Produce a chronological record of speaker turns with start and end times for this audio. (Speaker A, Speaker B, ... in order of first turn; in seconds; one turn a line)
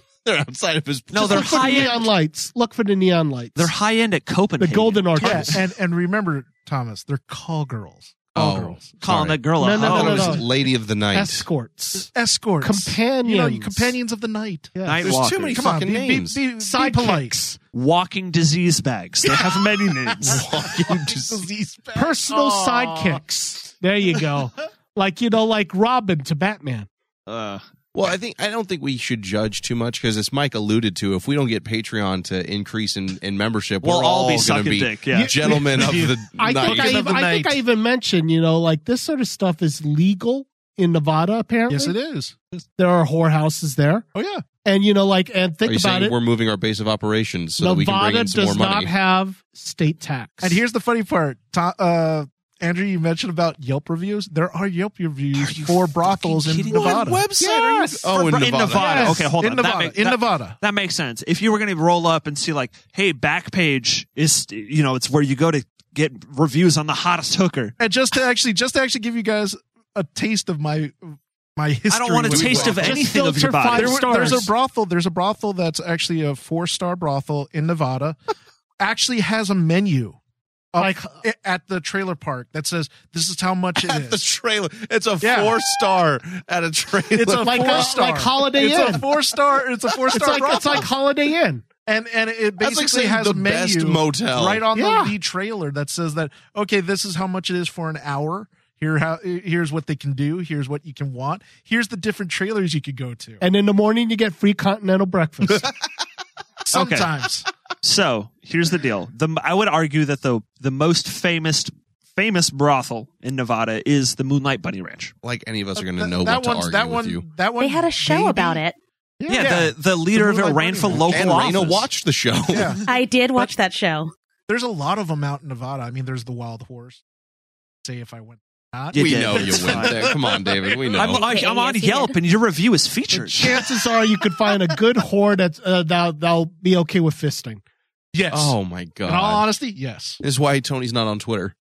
Speaker A: 0.2-1.8
Speaker B: 1.1-2.0
Speaker C: 1.2-3.7
Speaker B: 3.5-5.5
Speaker C: 4.6-5.6
Speaker D: 5.2-9.0
Speaker A: 8.3-11.5
Speaker B: 9.0-10.4
Speaker C: 9.5-14.0
Speaker D: 11.9-14.8
Speaker C: 14.7-15.1
Speaker B: 14.8-15.6
Speaker A: 15.0-16.4
Speaker D: 15.5-17.5
Speaker C: 16.5-17.6
Speaker B: 17.7-20.4
Speaker A: 20.2-21.4
Speaker D: 20.2-23.2
Speaker C: 21.9-26.9
Speaker B: 27.3-27.6
Speaker A: 27.9-37.0
Speaker B: 33.8-36.1
Speaker C: 35.1-42.0
Speaker B: 36.6-37.2
Speaker D: 36.8-37.5
Speaker D: 41.7-42.6
Speaker C: 42.8-44.0
Speaker D: 44.1-44.4
Speaker C: 44.6-46.2
Speaker A: 45.6-48.9
Speaker C: 47.6-50.6
Speaker D: 50.4-57.3
Speaker B: 55.3-57.2
Speaker A: 56.7-59.2
Speaker C: 57.4-59.2
Speaker B: 58.1-67.8
Speaker D: 58.7-60.6
Speaker D: 67.8-78.2
Speaker B: 71.9-74.3
Speaker C: 72.3-74.5
Speaker D: 78.8-80.2
Speaker D: 80.7-84.2
Speaker C: 80.8-81.2
Speaker A: 83.8-87.9
Speaker D: 85.2-85.5
Speaker D: 87.1-90.9
Speaker C: 87.2-89.1
Speaker C: 90.1-91.7
Speaker D: 91.8-103.4
Speaker A: 92.6-94.7
Speaker C: 94.7-95.1
Speaker C: 103.4-105.7
Speaker D: 106.6-107.5
Speaker B: 106.7-107.1
Speaker B: 107.8-115.1
Speaker A: 115.2-117.2
Speaker D: 115.8-118.6
Speaker E: 117.6-118.8
Speaker C: 119.2-119.7
Speaker D: 119.2-121.7
Speaker B: 119.3-121.9
Speaker A: 121.0-122.8
Speaker D: 122.5-122.8
Speaker E: 122.8-124.1
Speaker D: 124.5-127.0
Speaker D: 127.8-131.1
Speaker B: 128.9-130.1
Speaker A: 128.9-131.3
Speaker B: 130.9-133.6
Speaker E: 131.2-132.2
Speaker D: 133.1-133.7
Speaker C: 133.2-137.6
Speaker D: 138.1-140.2
Speaker A: 138.3-139.5
Speaker A: 140.2-141.5